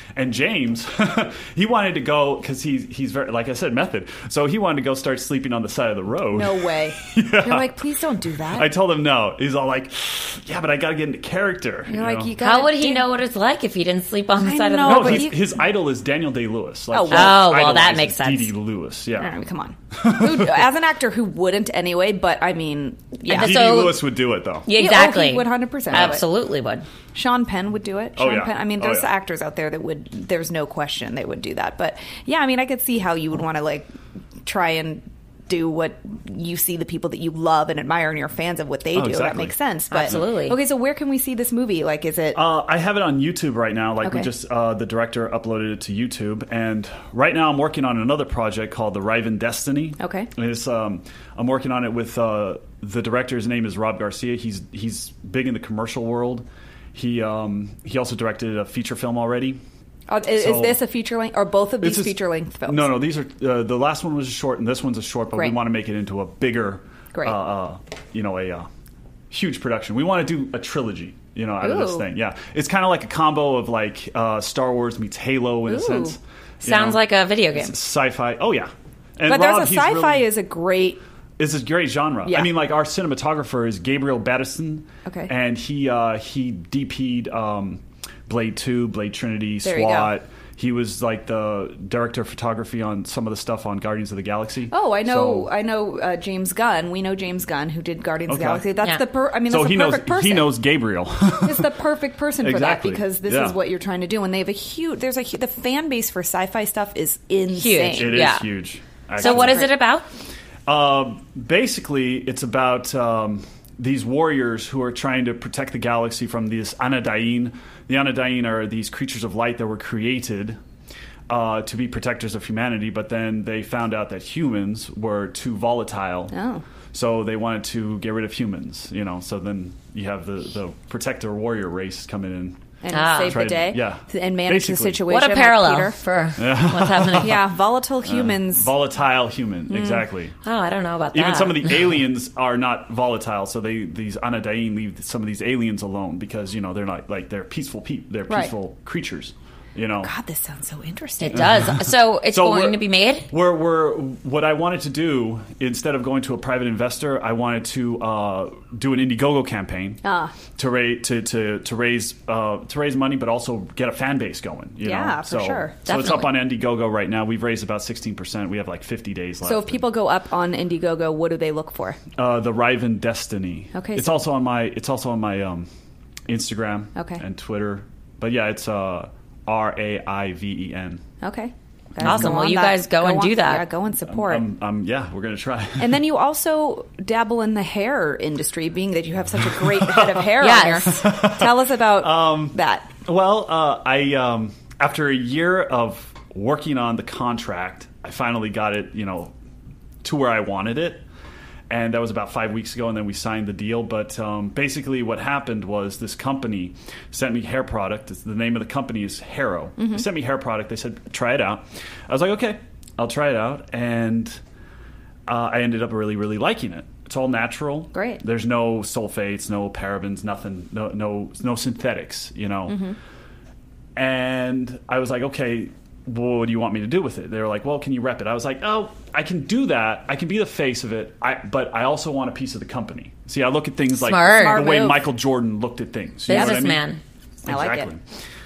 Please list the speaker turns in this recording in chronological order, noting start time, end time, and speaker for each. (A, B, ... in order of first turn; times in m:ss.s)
0:00.2-0:07.7 A
0:06.3-0:08.7 B
0:08.5-0:12.3 A
0:11.9-0:13.1 B
0:12.4-0:15.3 C
0:14.4-0:15.5 B
0:14.8-0:19.4 A
0:16.9-0:17.4 B
0:17.1-0:18.5 C
0:19.2-0:23.9 B
0:19.9-0:20.6 A
0:23.3-0:24.0 C
0:23.4-0:24.7 A
0:24.7-0:26.9 C
0:24.7-0:26.2 B
0:25.9-0:26.2 A
0:27.1-0:33.9 B
0:28.2-0:29.1 A
0:34.4-0:42.4 B
0:38.9-0:39.5 A
0:39.9-0:40.6 C
0:42.4-0:59.6 A
0:44.0-0:44.3 B
0:50.0-0:50.3 B
1:00.1-1:03.0 B
1:00.4-1:00.8 A
1:01.8-1:08.7 A
1:09.3-1:17.0 A
1:11.6-1:12.0 B
1:15.7-1:16.2 B
1:16.6-1:17.7 C
1:17.5-1:20.3 A
1:19.3-1:21.0 B
1:21.4-1:35.5 A
1:22.2-1:22.5 B
1:25.1-1:25.3 B
1:29.6-1:30.1 B
1:34.7-1:40.6 B
1:38.3-1:38.7 A
1:39.4-1:41.8 A
1:41.4-1:48.3 B
1:42.4-1:43.6 A
1:47.5-1:48.5 C
1:47.9-1:49.7 A
1:49.2-1:50.0 C
1:49.2-1:49.7 B
1:50.7-2:00.6 A
2:01.3-2:06.4 A
2:06.3-2:06.6 B
2:06.9-2:12.6 A
2:12.8-2:16.0 B
2:12.9-2:13.4 C
2:13.2-2:15.0 A
2:15.1-2:17.4 C
2:16.4-2:17.5 A
2:17.2-2:18.7 B
2:18.0-2:20.4 A
2:19.7-2:20.1 B
2:20.4-2:21.8 C
2:21.1-2:30.1 A
2:30.0-2:31.5 B
2:31.2-2:33.3 C
2:31.3-2:40.0 A
2:40.0-2:40.3 B
2:40.6-2:49.8 A
2:44.8-2:45.9 B
2:45.9-2:46.3 C
2:49.4-2:52.0 B
2:52.2-2:55.7 A
2:53.8-2:54.2 B
2:56.3-3:01.0 A
2:57.0-2:57.2 B
3:01.2-3:04.4 B
3:02.0-3:02.4 A
3:02.0-3:03.7 C
3:04.1-3:06.0 A
3:05.8-3:12.9 B
3:09.6-3:10.3 A
3:10.4-3:11.0 C
3:10.8-3:19.3 A
3:20.0-3:21.0 A
3:21.7-3:34.4 A
3:29.8-3:30.0 B
3:35.3-3:42.8 A
3:37.9-3:38.2 B
3:42.7-3:43.0 B
3:44.0-3:56.8 A
3:54.0-3:54.7 C
3:54.2-3:55.1 B
3:56.3-3:57.0 C
3:56.3-3:56.7 B
3:57.5-3:57.9 B
3:57.5-3:58.0 A